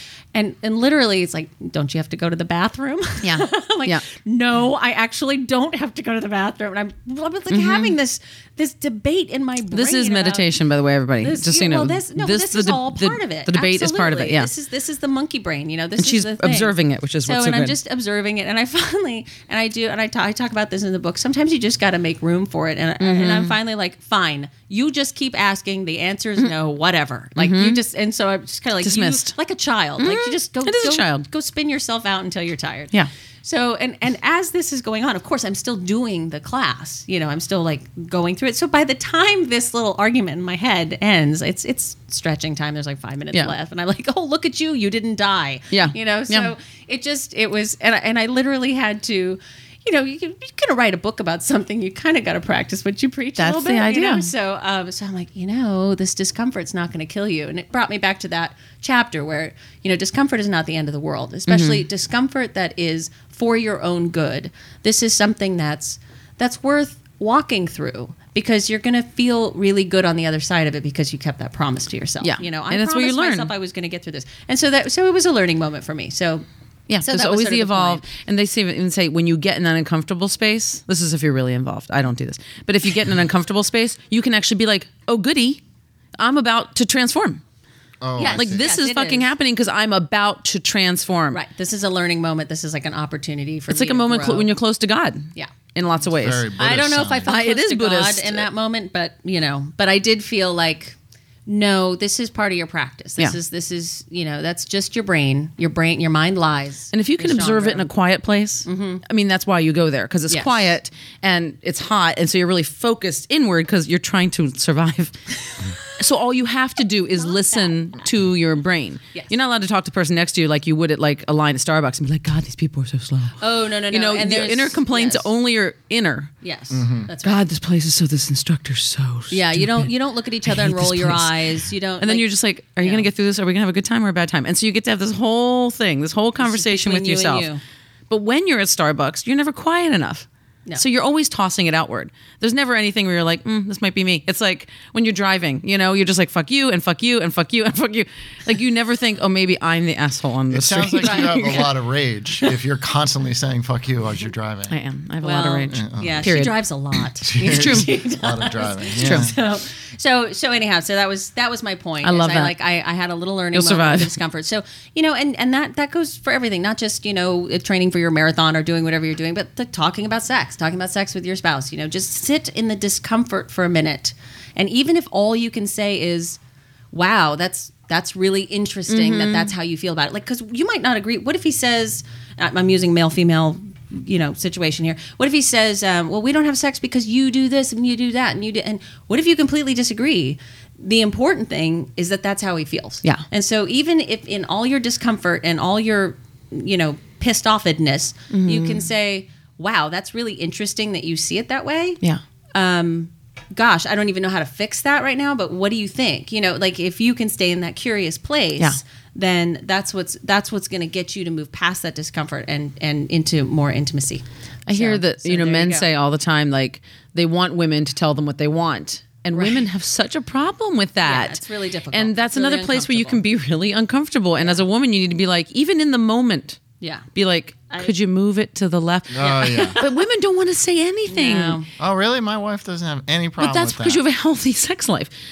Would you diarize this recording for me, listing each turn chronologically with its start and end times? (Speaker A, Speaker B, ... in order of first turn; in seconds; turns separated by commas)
Speaker A: 0.3-10.4, Speaker B: 3.2-4.0, Speaker B: 7.5-8.0, Speaker B: 9.7-14.5, Speaker A: 11.2-76.5, Speaker B: 16.0-17.8, Speaker B: 23.0-23.6, Speaker B: 27.4-27.8, Speaker B: 28.8-29.3, Speaker B: 30.0-31.3, Speaker B: 45.7-46.5, Speaker B: 53.4-54.3, Speaker B: 61.5-61.9, Speaker B: 72.2-73.5, Speaker B: 76.9-85.6, Speaker A: 77.0-78.0, Speaker B: 86.2-87.4, Speaker C: 88.0-88.7, Speaker A: 88.2-89.3, Speaker B: 88.3-91.4, Speaker A: 91.3-94.5, Speaker B: 93.7-96.5, Speaker C: 96.1-97.3, Speaker A: 96.6-107.9, Speaker B: 97.3-98.5, Speaker B: 106.9-115.2, Speaker A: 108.7-109.0, Speaker A: 110.3-110.7, Speaker B: 115.8-126.3, Speaker A: 117.2-117.8, Speaker A: 123.4-125.3, Speaker A: 126.4-127.4, Speaker C: 126.7-127.1, Speaker B: 127.2-129.9, Speaker A: 129.3-132.3, Speaker B: 130.4-131.4, Speaker B: 132.0-137.5, Speaker A: 132.8-133.1, Speaker A: 136.4-137.6, Speaker B: 138.1-151.7, Speaker C: 150.5-154.8, Speaker A: 151.0-151.7, Speaker B: 154.7-156.6, Speaker A: 155.2-176.4, Speaker C: 155.7-156.3, Speaker C: 157.2-159.4, Speaker B: 157.4-157.9, Speaker B: 159.0-159.3, Speaker B: 162.0-162.6, Speaker B: 163.5-164.2, Speaker A: 176.9-202.0, Speaker B: 178.9-179.5, Speaker B: 198.3-198.9, Speaker A: 202.5-215.9, Speaker B: 214.7-226.6, Speaker A: 219.3-219.7, Speaker A: 221.0-223.2, Speaker A: 224.4-224.6, Speaker B: 227.2-231.6, Speaker C: 229.1-229.8, Speaker A: 229.2-230.0, Speaker A: 231.1-231.7, Speaker C: 231.8-234.0, Speaker B: 233.4-235.1